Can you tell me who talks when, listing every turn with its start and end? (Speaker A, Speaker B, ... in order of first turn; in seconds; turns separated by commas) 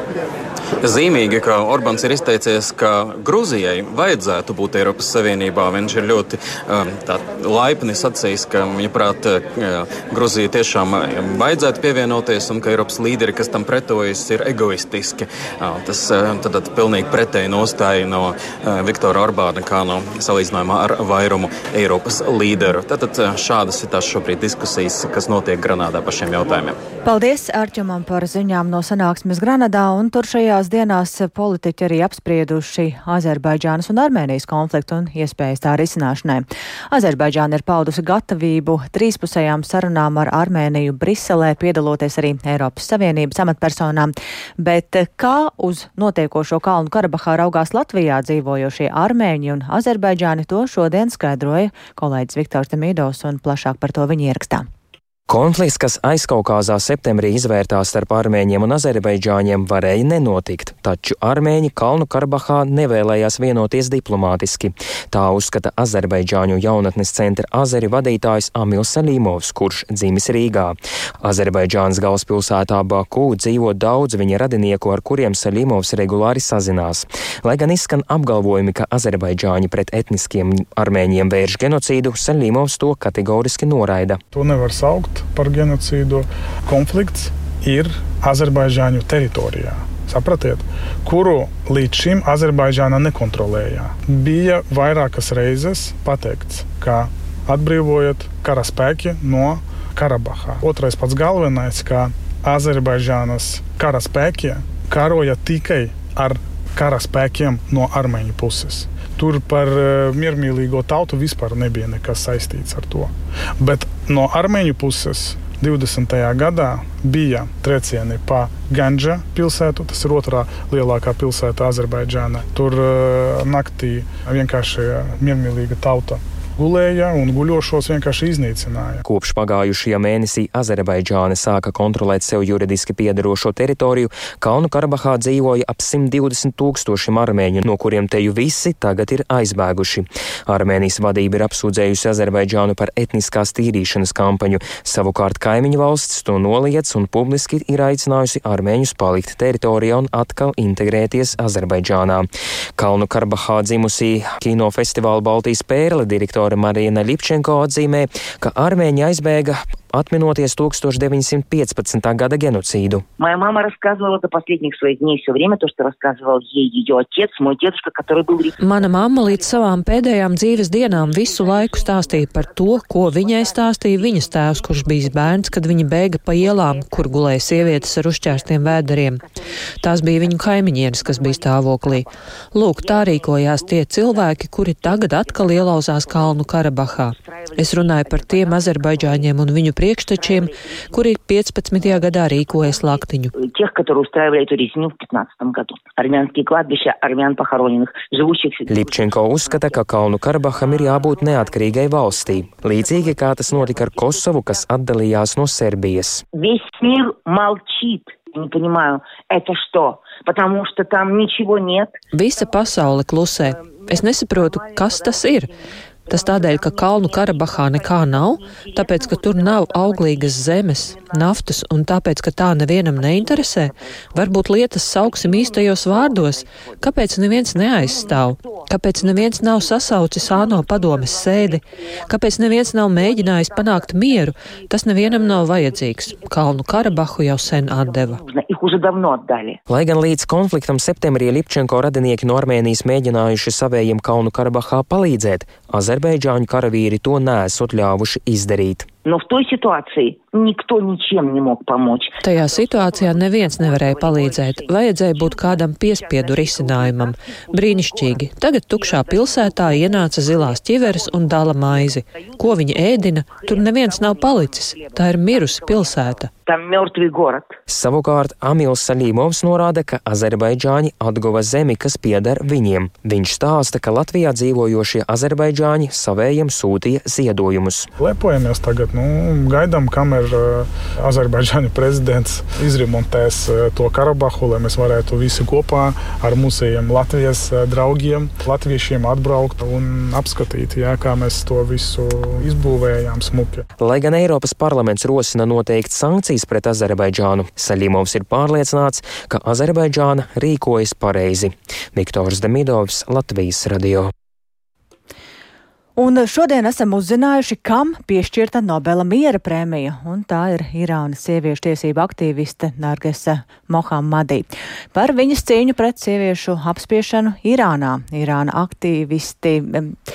Speaker A: 0.8-26.8, Speaker B: 27.0-54.7, Speaker C: 55.3-84.2, Speaker D: 84.3-129.0, Speaker C: 129.1-163.0, Speaker E: 163.2-168.5, Speaker F: 168.6-179.2, Speaker E: 171.4-172.0, Speaker F: 179.8-193.3, Speaker E: 187.8-188.7, Speaker E: 193.4-198.9, Speaker C: 198.7-206.2, Speaker E: 206.4-211.9, Speaker F: 212.1-215.5, Speaker F: 216.1-238.2, Speaker E: 216.5-216.8, Speaker E: 217.5-217.8, Speaker E: 218.5-219.9, Speaker E: 227.8-228.6, Speaker E: 230.3-231.2, Speaker E: 232.4-233.7, Speaker E: 237.6-239.6, Speaker C: 239.7-248.9, Speaker E: 249.1-252.1, Speaker F: 252.2-266.3, Speaker E: 252.8-254.4, Speaker E: 256.4-257.0, Speaker E: 259.3-259.7, Speaker E: 264.3-264.9, Speaker E: 266.5-267.5, Speaker C: 267.7-277.9, Speaker D: 278.0-293.6, Speaker C: 293.8-304.1, Speaker B: 305.9-320.0